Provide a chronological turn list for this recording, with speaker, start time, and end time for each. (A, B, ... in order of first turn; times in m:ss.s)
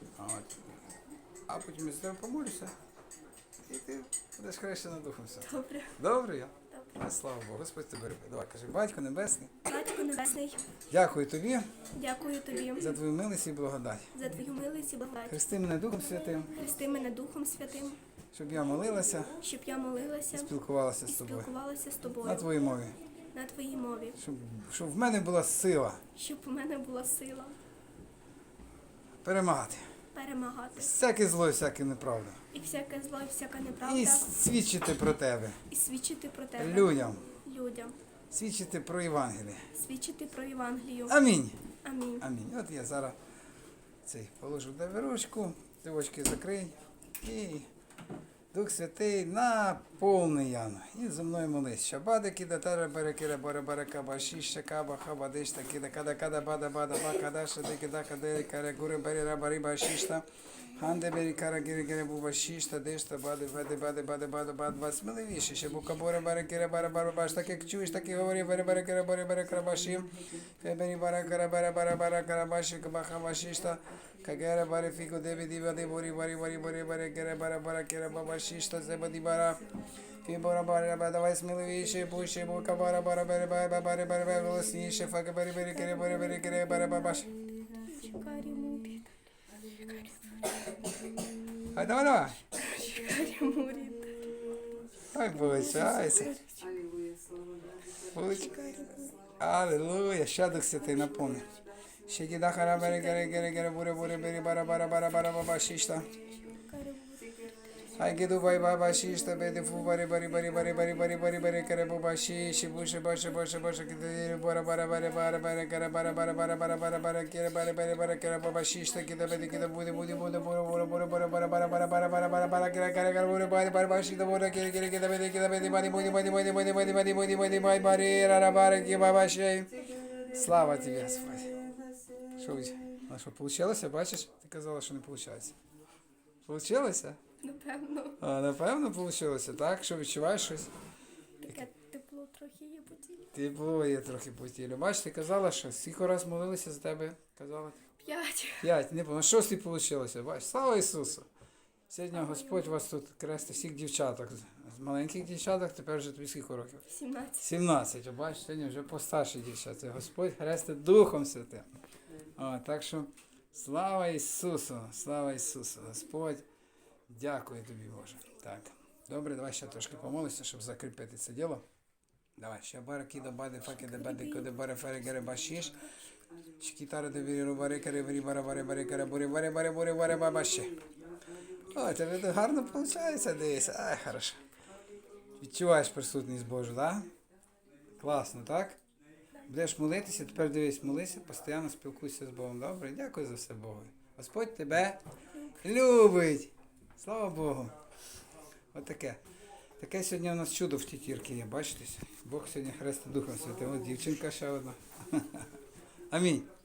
0:00.2-0:00.6 A
0:01.5-0:02.7 A
0:03.6-0:09.6 A
0:05.4-0:06.0 B
0:06.7-0:07.0 B
0:09.6-0:10.6 B
0:10.9-0:11.7 A
0:11.9-0:13.0 B
0:12.8-0:14.2 A
0:14.1-0:15.4 B
0:15.3-0:16.6 A
0:16.4-0:18.0 B
0:18.3-0:19.4 A
0:19.4-0:20.6 B
0:20.3-0:21.5 A
0:21.1-0:22.5 B
0:22.2-0:23.0 A
0:23.3-0:24.2 B
0:24.2-0:26.0 A
0:26.2-0:27.6 B
0:29.2-0:29.9 A
0:30.1-0:30.9 B
0:30.8-0:32.4 A
0:32.5-0:34.3 B
0:33.8-0:35.6 A
0:35.7-0:38.0 B
0:36.6-0:37.3 A
0:38.3-0:39.7 A
0:39.7-0:41.2 B
0:41.1-0:41.6 A
0:41.8-0:42.2 B
0:42.2-0:43.2 A
0:44.0-0:47.7 A
0:48.5-1:19.6 A
1:20.2-1:27.3 A
1:25.7-1:26.6 B
1:27.8-1:29.1 B
1:29.8-1:30.9 B
1:31.7-1:32.5 A
1:32.5-1:34.3 B
1:35.1-1:36.4 A
1:35.3-1:36.8 B
1:38.1-1:38.8 A
1:38.2-1:39.2 B
1:39.4-1:41.5 A
1:42.1-1:46.1 A
1:42.8-1:43.6 B
1:46.2-1:47.3 B
1:48.0-2:11.6 A
2:12.4-2:15.6 A
2:16.5-2:17.2 A
2:17.4-2:18.2 B
2:18.2-2:20.7 A
2:21.4-2:23.3 B
2:23.3-2:27.8 A
2:28.0-2:28.7 B
2:28.6-2:31.3 A
2:31.9-2:36.9 A
2:32.1-2:32.8 B
2:36.9-2:37.5 B
2:37.4-2:41.7 A
2:42.4-2:46.4 A
2:47.1-2:51.6 A
2:52.4-2:55.8 A
2:53.8-2:54.5 B
2:56.6-3:00.8 A
3:01.7-3:04.4 A
3:05.4-3:07.1 A
3:08.0-3:08.8 A
3:09.5-3:15.0 A
3:15.6-3:17.7 A
3:18.7-3:19.2 A
3:19.8-3:25.5 A
3:26.1-3:26.5 A